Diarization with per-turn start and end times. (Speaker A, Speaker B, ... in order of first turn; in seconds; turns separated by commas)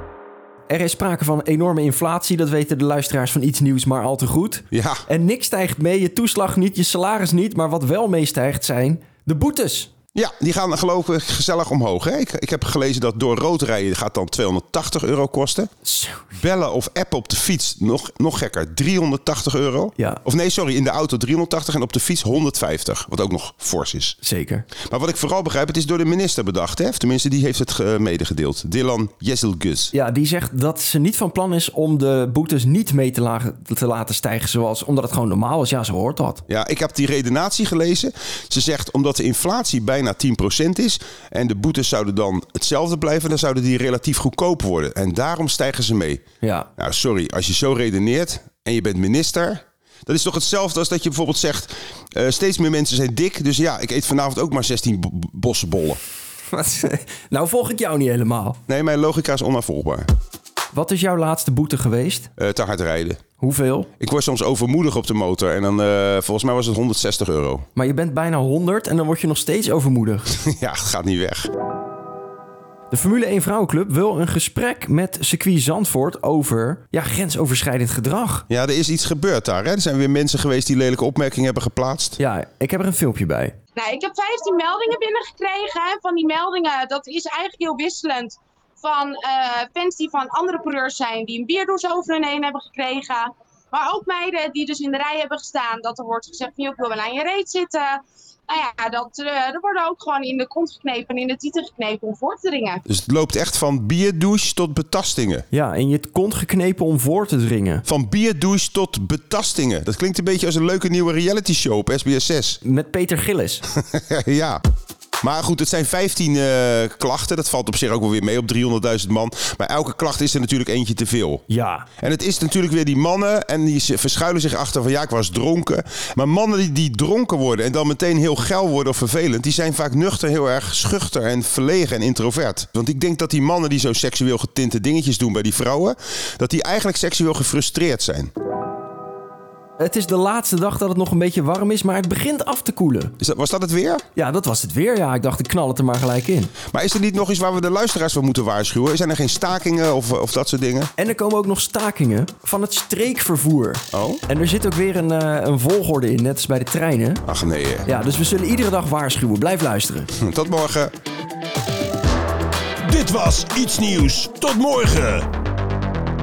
Speaker A: 0.7-9.9, Speaker B: 4.7-5.0, Speaker B: 10.1-15.7, Speaker A: 15.8-16.3, Speaker B: 16.4-24.1, Speaker A: 24.2-24.7, Speaker B: 24.9-29.9, Speaker A: 29.9-36.4, Speaker B: 36.5-46.2, Speaker A: 46.4-46.7, Speaker B: 46.8-56.0, Speaker A: 56.5-58.6, Speaker B: 58.7-60.1, Speaker A: 60.7-62.3, Speaker B: 62.4-63.2, Speaker A: 63.4-63.9, Speaker B: 64.0-67.7, Speaker A: 67.8-70.3, Speaker B: 70.3-71.5, Speaker A: 72.9-78.5, Speaker B: 78.5-82.2, Speaker A: 82.2-83.5, Speaker C: 83.8-102.8, Speaker B: 102.9-105.5, Speaker A: 105.5-107.8, Speaker B: 107.8-112.6, Speaker A: 112.6-113.6, Speaker B: 113.8-114.6, Speaker B: 115.2-121.4, Speaker A: 121.5-121.9, Speaker B: 122.0-138.3, Speaker A: 139.8-143.2, Speaker B: 143.2-144.0, Speaker A: 144.1-146.5, Speaker B: 146.7-150.9, Speaker A: 151.0-157.2, Speaker B: 153.9-154.2, Speaker B: 157.2-157.9, Speaker A: 157.8-160.1, Speaker B: 160.1-160.9, Speaker B: 162.8-165.3